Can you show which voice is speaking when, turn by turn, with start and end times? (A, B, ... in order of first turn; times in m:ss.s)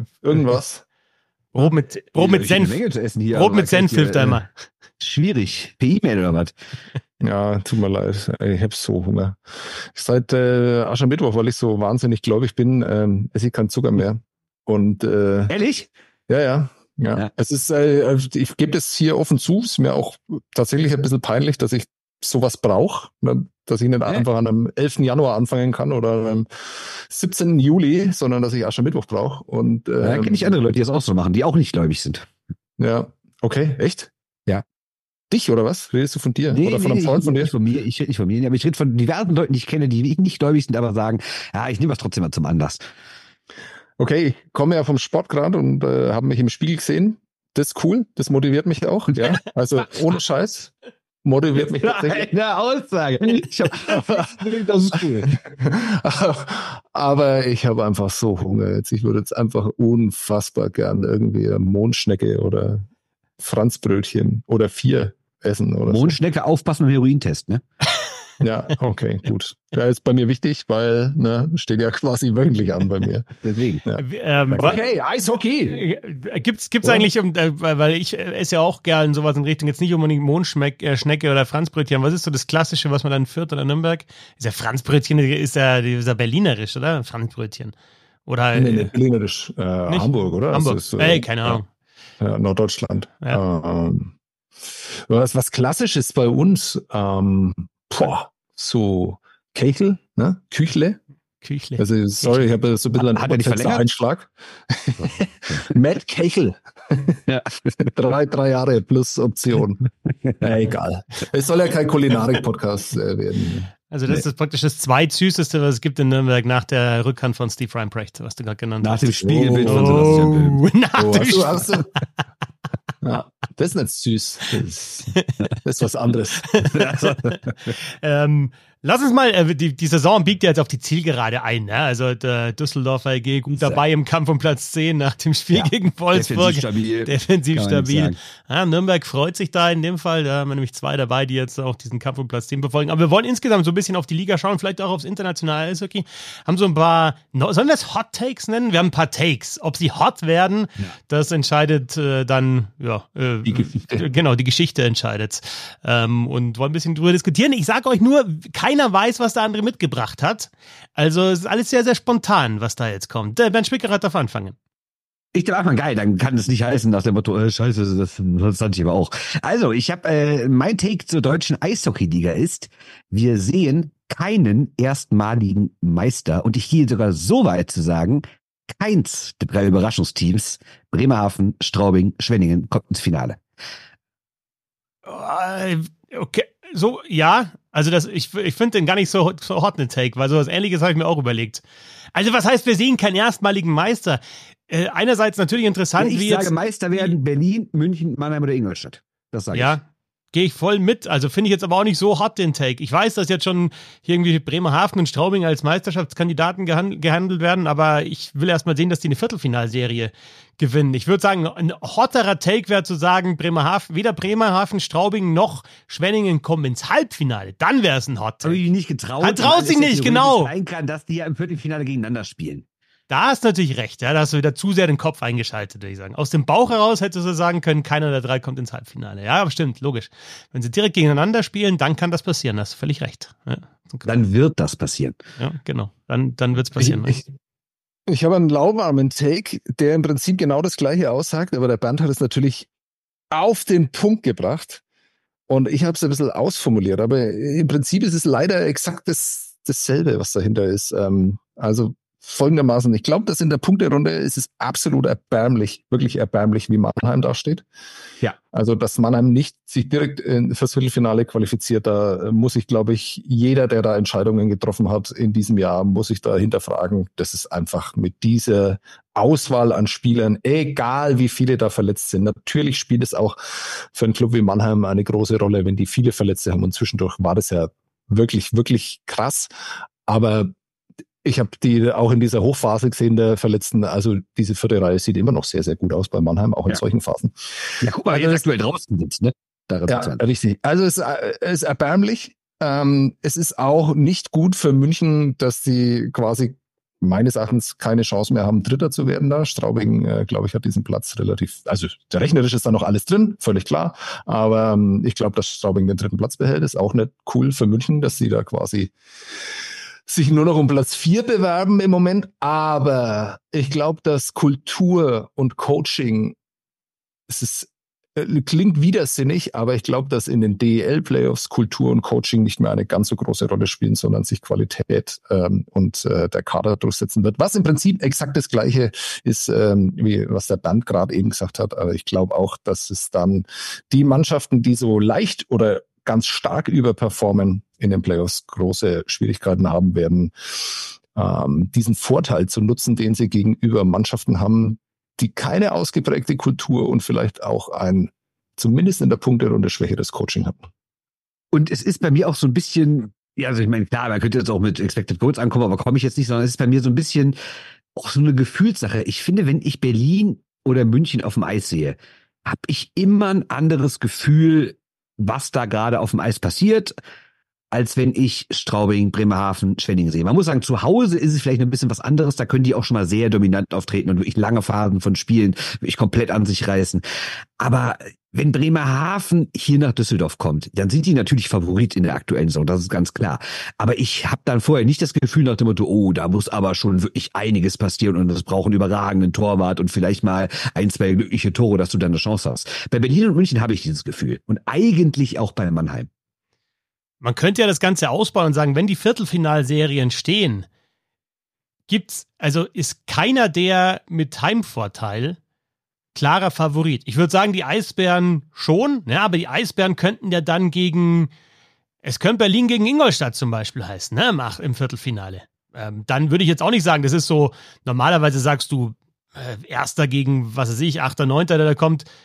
0:00.2-0:00.8 A
0:01.5-0:02.8 B
0:02.1-0:04.4 C
0:03.3-0:04.5 B
0:05.0-0:06.5 C
0:07.2-0:15.5 A
0:15.5-0:15.9 C
0:16.3-0:30.6 A
0:30.0-0:32.2 C
0:32.8-0:34.6 A
0:35.3-0:37.5 A
0:36.5-0:42.8 C
0:44.0-0:50.7 A
0:51.2-0:52.3 A
0:51.6-0:55.4 C
0:53.9-0:54.3 A
0:54.9-1:02.8 A
1:03.4-1:06.2 A
1:05.9-1:07.6 C
1:08.4-1:13.3 A
1:13.4-1:13.8 C
1:13.8-1:15.8 A
1:14.0-1:14.8 B
1:15.7-1:27.7 B
1:16.8-1:17.1 A
1:28.2-1:28.9 B
1:28.5-1:31.6 A
1:29.9-1:31.6 B
1:32.2-1:34.1 A
1:35.1-1:41.0 A
1:41.4-1:42.5 B
1:41.8-1:47.2 A
1:43.1-1:43.8 C
1:45.0-1:45.7 C
1:47.3-1:47.7 C
1:47.8-1:49.8 A
1:50.4-1:54.2 A
1:53.9-2:01.7 B
1:58.8-2:00.6 C
1:59.2-2:00.2 A
2:01.0-2:01.9 A
2:03.0-2:05.1 A
2:05.6-2:06.6 A
2:06.5-2:07.3 B
2:06.8-2:07.1 C
2:07.8-2:44.6 B
2:13.5-2:13.8 C
2:15.5-2:18.2 C
2:33.4-2:34.0 A
2:45.3-3:03.4 C
3:05.0-3:11.6 B
3:12.1-3:17.1 B
3:16.0-3:19.8 C
3:19.5-3:19.8 B
3:20.3-3:38.6 B
3:38.4-3:42.6 C
3:39.2-3:40.5 B
3:43.1-3:54.1 B
3:54.0-3:55.2 C
3:55.4-3:57.2 B
3:56.8-3:57.3 A
3:58.1-4:02.7 A
4:03.3-4:04.8 A
4:05.5-4:17.6 A
4:18.5-4:39.5 A
4:40.0-4:40.5 A
4:41.2-4:47.3 A
4:47.8-4:50.2 C
4:48.1-4:48.4 A
4:49.9-5:08.9 A
5:10.1-5:16.4 A
5:17.3-5:50.6 A
5:51.5-5:57.4 C
5:57.9-6:06.9 C
6:07.7-6:17.0 C
6:17.6-6:36.1 C
6:37.2-6:40.6 B
6:41.9-6:45.4 B
6:46.1-6:51.3 B
6:52.0-7:02.1 B